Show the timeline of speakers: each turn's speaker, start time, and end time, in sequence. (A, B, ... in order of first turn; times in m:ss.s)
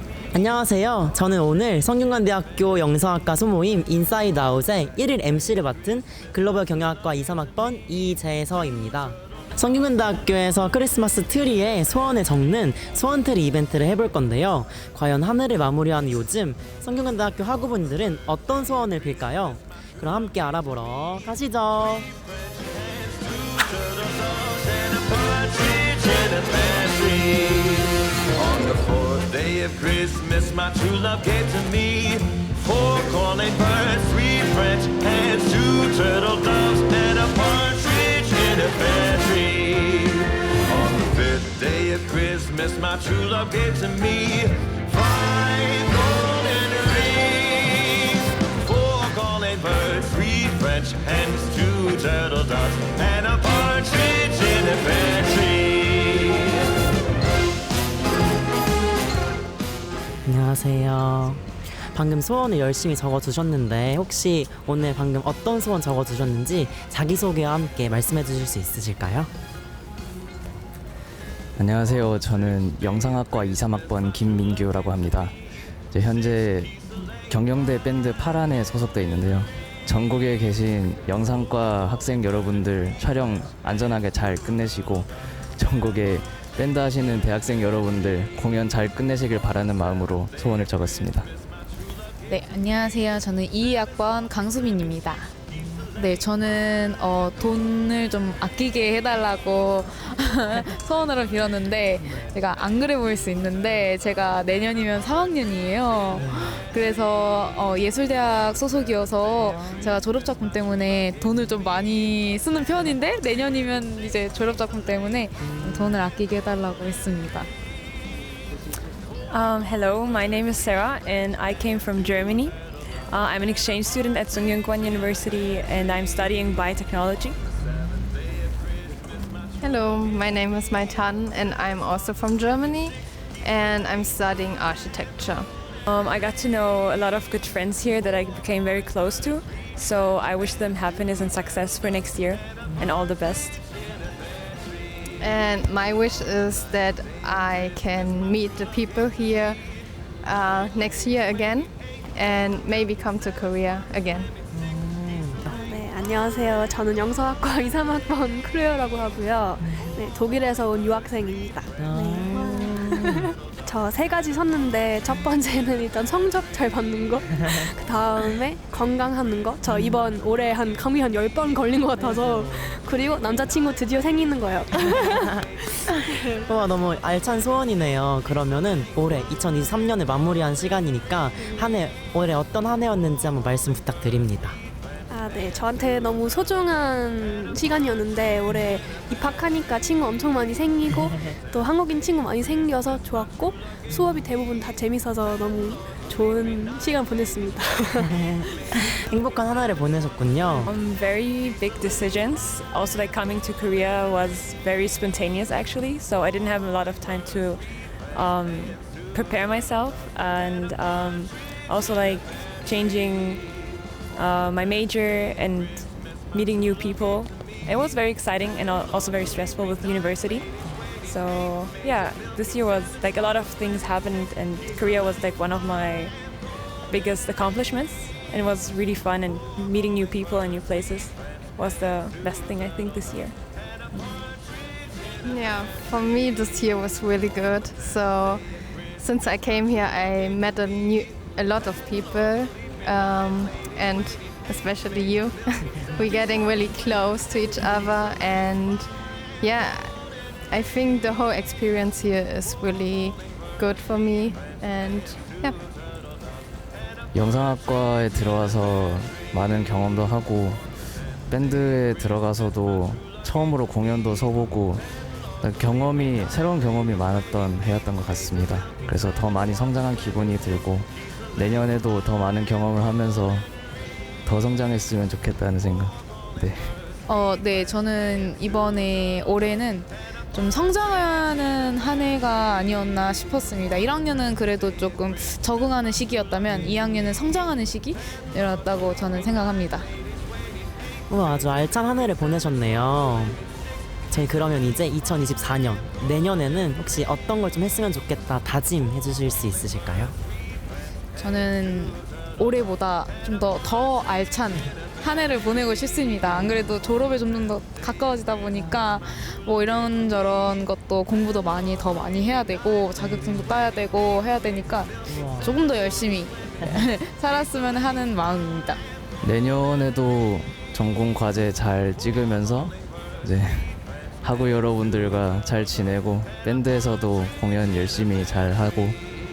0:00.3-0:22.1 A
0:22.5-0:56.6 B
1:00.2-1:09.3 A
1:11.6-1:15.4 C
1:15.9-1:16.7 C
1:17.3-1:31.3 C
1:32.3-1:35.3 D
1:35.6-1:35.9 A
1:36.0-1:57.5 D
1:46.1-1:46.6 A
1:49.4-1:50.0 A
1:55.4-1:56.1 A
1:59.3-2:07.4 E
2:09.6-2:15.5 F
2:15.9-2:23.6 E
2:25.2-2:29.6 F
2:30.2-2:34.3 F
2:34.5-2:35.5 A
2:35.4-2:56.5 G
2:39.6-2:40.0 A
2:41.8-2:43.2 A
2:49.7-2:50.0 A
2:52.0-2:52.7 A
2:55.4-3:04.6 A
3:01.4-3:01.7 G
3:05.1-3:18.1 G
3:18.1-3:20.7 A
3:20.6-3:54.3 E
3:40.6-3:40.9 A
3:55.2-4:15.6 F
4:17.1-4:20.6 C
4:21.2-4:24.8 C
4:25.4-4:33.5 C
4:34.2-4:36.8 C
4:37.1-4:49.9 D
4:46.5-4:47.1 A
4:51.1-4:53.4 A
4:54.1-5:00.1 A
5:01.2-5:18.8 D
5:08.5-5:09.2 A
5:13.0-5:13.6 A
5:15.0-5:15.6 A
5:19.2-5:29.0 C